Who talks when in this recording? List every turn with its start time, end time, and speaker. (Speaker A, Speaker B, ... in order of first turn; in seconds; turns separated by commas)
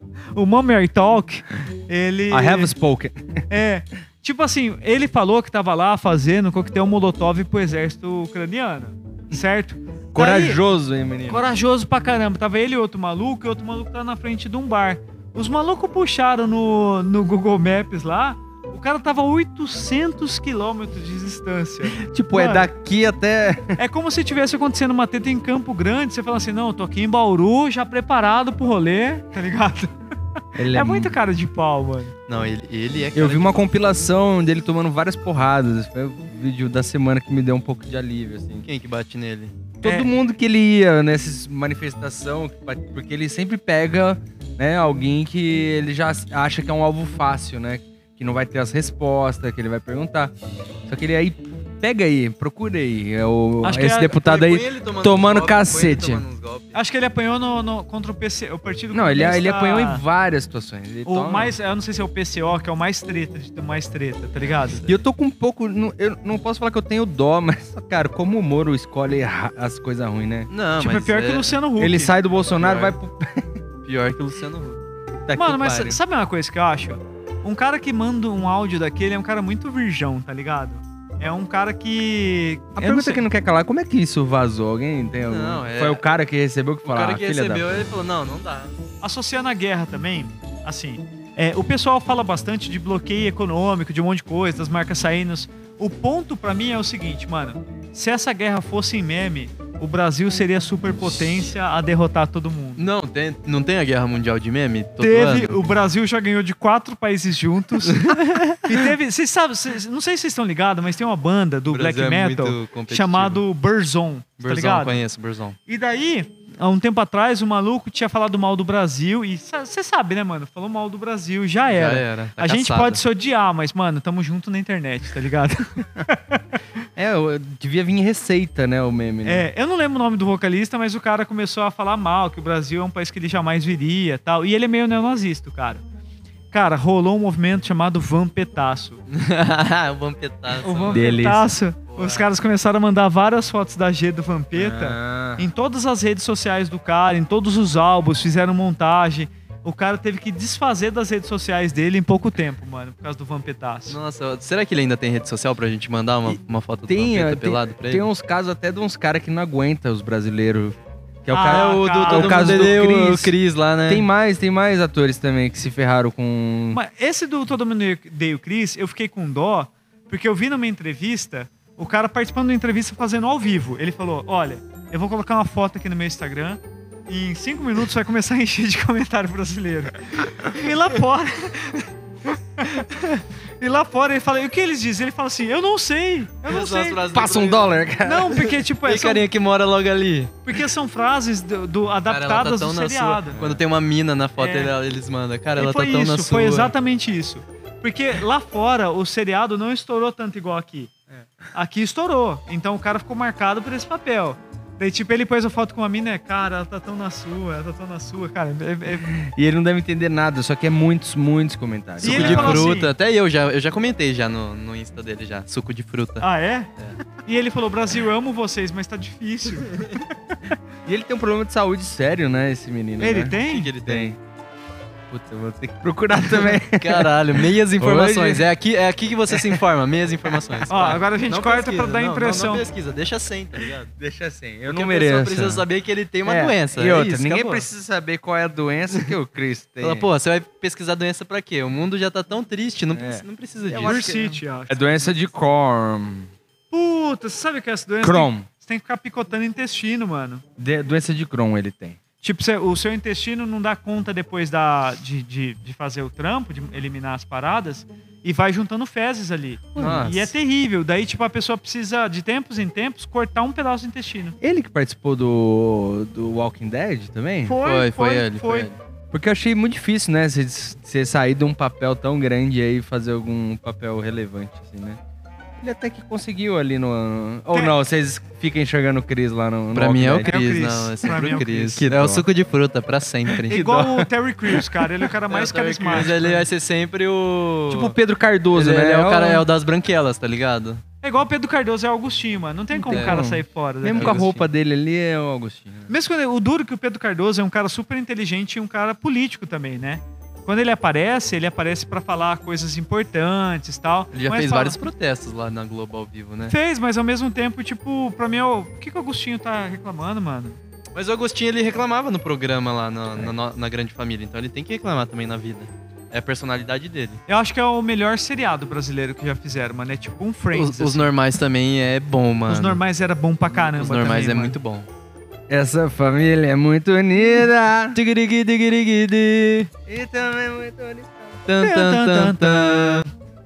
Speaker A: 0.3-2.7, Speaker B: 2.3-3.4, Speaker A: 3.5-10.6, Speaker B: 10.1-11.4, Speaker A: 11.3-22.7, Speaker B: 22.0-23.8, Speaker A: 23.8-29.9, Speaker B: 30.6-31.1, Speaker A: 30.6-32.1, Speaker C: 32.3-33.5, Speaker B: 33.1-38.6, Speaker C: 38.6-39.5, Speaker B: 39.8-50.3, Speaker A: 39.8-40.1, Speaker B: 50.9-56.2, Speaker A: 53.6-54.5, Speaker C: 54.3-56.8, Speaker A: 56.7-60.0, Speaker B: 58.9-61.5, Speaker A: 61.0-64.8, Speaker C: 64.4-65.0, Speaker B: 64.9-70.5, Speaker C: 70.5-71.6, Speaker A: 70.8-72.1, Speaker B: 71.8-73.6, Speaker C: 72.5-73.0, Speaker C: 73.8-74.8, Speaker B: 75.2-76.0, Speaker A: 75.3-83.2, Speaker B: 82.8-87.8, Speaker C: 85.2-86.0, Speaker C: 86.8-88.7, Speaker A: 89.0-102.9, Speaker C: 102.8-105.6, Speaker A: 105.0-115.0, Speaker C: 107.9-108.8, Speaker C: 111.7-113.4, Speaker C: 114.4-115.6, Speaker A: 115.7-126.6, Speaker C: 121.7-123.0, Speaker B: 127.0-129.4, Speaker A: 129.2-135.8, Speaker A: 136.5-139.0, Speaker C: 139.1-141.1, Speaker A: 140.6-154.0, Speaker B: 140.9-141.5, Speaker C: 141.9-142.3, Speaker B: 144.5-145.4, Speaker C: 153.9-158.1, Speaker B: 156.3-163.3, Speaker A: 161.3-162.8, Speaker C: 161.6-164.1, Speaker B: 163.8-166.8, Speaker A: 166.7-181.9, Speaker A: 182.6-187.1, Speaker C: 186.4-187.8, Speaker B: 187.1-188.6, Speaker A: 188.0-189.3, Speaker C: 188.8-190.3, Speaker A: 190.4-193.4, Speaker C: 192.1-196.7, Speaker B: 193.3-193.6, Speaker A: 194.4-194.7, Speaker A: 195.6-200.9, Speaker A: 201.5-209.1, Speaker B: 209.0-212.6, Speaker A: 212.0-212.9, Speaker C: 212.0-216.2, Speaker A: 216.2-216.7, Speaker A: 217.2-219.8, Speaker B: 220.8-224.2, Speaker A: 223.0-223.7, Speaker C: 223.5-224.1, Speaker B: 225.1-228.5, Speaker C: 226.3-233.9, Speaker B: 229.3-229.6, Speaker A: 230.7-232.6, Speaker B: 233.9-235.6, Speaker C: 234.7-237.7, Speaker B: 236.2-240.1, Speaker C: 239.8-244.3, Speaker B: 242.9-246.3, Speaker A: 243.7-244.8, Speaker A: 246.7-250.4, Speaker B: 248.0-248.5, Speaker B: 250.6-252.0, Speaker A: 252.2-264.4, Speaker B: 259.8-260.3, Speaker B: 264.4-267.6, Speaker A: 267.4-268.7, Speaker C: 267.6-268.8, Speaker B: 269.1-275.0, Speaker B: 275.6-280.4, Speaker A: 277.5-277.8, Speaker C: 279.7-283.6, Speaker A: 280.2-281.9, Speaker B: 281.8-282.2, Speaker B: 283.3-284.6, Speaker A: 283.5-286.5, Speaker C: 285.3-287.9, Speaker B: 287.7-289.5, Speaker C: 288.5-290.8, Speaker A: 291.0-294.3, Speaker B: 292.9-295.9, Speaker C: 292.9-293.2, Speaker C: 293.9-294.4, Speaker A: 295.9-304.8, Speaker C: 304.1-306.5, Speaker A: 306.5-310.6, Speaker C: 310.9-317.2, Speaker A: 317.3-321.1, Speaker C: 320.5-322.8, Speaker A: 322.5-324.6, Speaker C: 323.5-324.9, Speaker B: 325.5-328.0, Speaker C: 327.9-329.7, Speaker B: 329.9-331.4, Speaker C: 331.5-333.1, Speaker A: 331.6-333.1